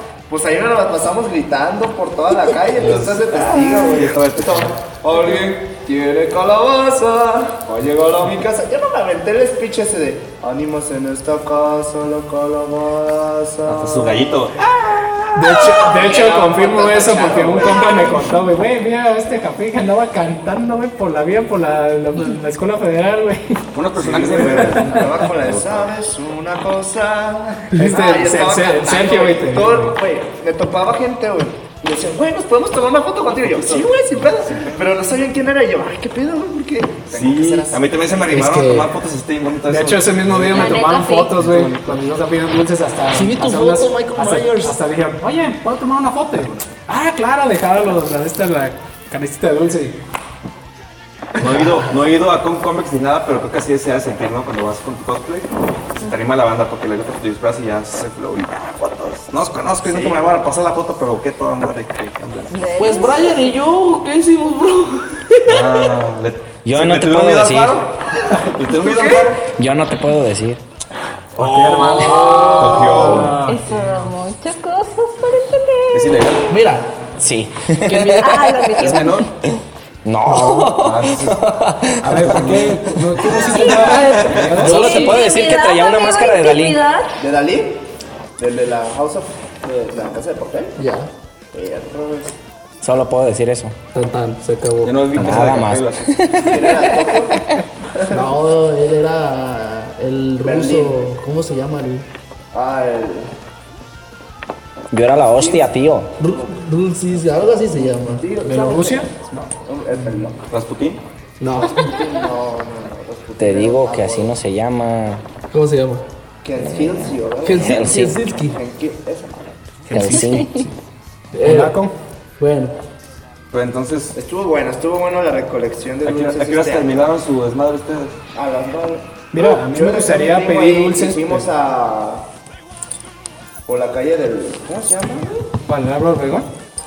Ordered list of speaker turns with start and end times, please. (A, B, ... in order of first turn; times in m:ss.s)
0:00.3-0:14.5 A
0:02.8-0:05.5 B
0:13.7-0:15.1 B
0:15.3-0:18.4 A
0:15.3-0:23.6 C
0:15.4-0:15.6 D
0:23.7-0:25.9 B
0:24.0-0:38.6 A
0:24.4-0:25.1 C
0:27.7-0:30.0 C
0:33.6-0:34.9 B
0:37.1-0:40.8 B
0:38.3-0:38.9 D
0:39.7-0:50.0 C
0:40.5-0:41.4 E
0:41.4-0:41.9 B
0:43.1-0:44.8 D
0:51.4-1:02.6 B
1:02.5-1:03.6 E
1:02.8-1:06.0 D
1:05.4-1:09.5 B
1:06.6-1:07.8 F
1:09.4-1:10.6 F
1:11.4-1:13.4 B
1:11.4-1:14.1 C
1:12.3-1:12.8 E
1:12.3-1:13.2 A
1:12.8-1:13.2 D
1:13.4-1:16.3 E
1:15.9-1:16.5 B
1:16.5-1:17.0 D
1:17.2-1:18.7 F
1:17.8-1:18.6 D
1:18.2-1:19.2 E
1:18.8-1:19.3 B
1:20.0-1:23.2 F
1:20.7-1:21.5 B
1:22.0-1:24.8 C
1:22.2-1:23.0 B
1:23.3-1:27.2 E
1:23.9-1:24.5 B
1:24.6-1:26.8 F
1:24.6-1:25.2 D
1:27.2-1:30.8 A
1:30.8-1:31.1 D
1:31.5-1:32.3 A
1:32.8-1:33.7 F
1:33.9-1:35.4 D
1:34.8-1:36.3 B
1:35.1-1:37.1 F
1:36.4-1:38.3 A
1:38.1-1:42.0 D
1:40.4-1:41.0 A
1:42.5-1:43.3 A
1:44.9-1:46.1 F
1:45.3-1:45.7 A
1:46.2-1:48.8 D
1:47.2-1:50.4 A
1:48.5-1:49.1 C
1:50.5-1:51.0 B
1:51.4-1:52.1 D
1:51.5-1:54.4 A
1:53.4-1:55.2 F
1:55.5-1:56.1 D
1:56.4-1:59.6 A
1:56.6-1:58.1 F
1:57.4-1:58.6 D
1:59.9-2:00.7 C
1:59.9-2:00.7 F
2:00.2-2:00.6 E
2:01.3-2:01.8 D
2:01.4-2:01.9 C
2:02.4-2:02.8 D
2:03.5-2:04.1 B
2:04.1-2:07.1 A
2:06.0-2:08.2 B
2:08.3-2:12.3 A
2:09.3-2:11.5 C
2:13.6-2:15.5 A
2:15.6-2:16.5 C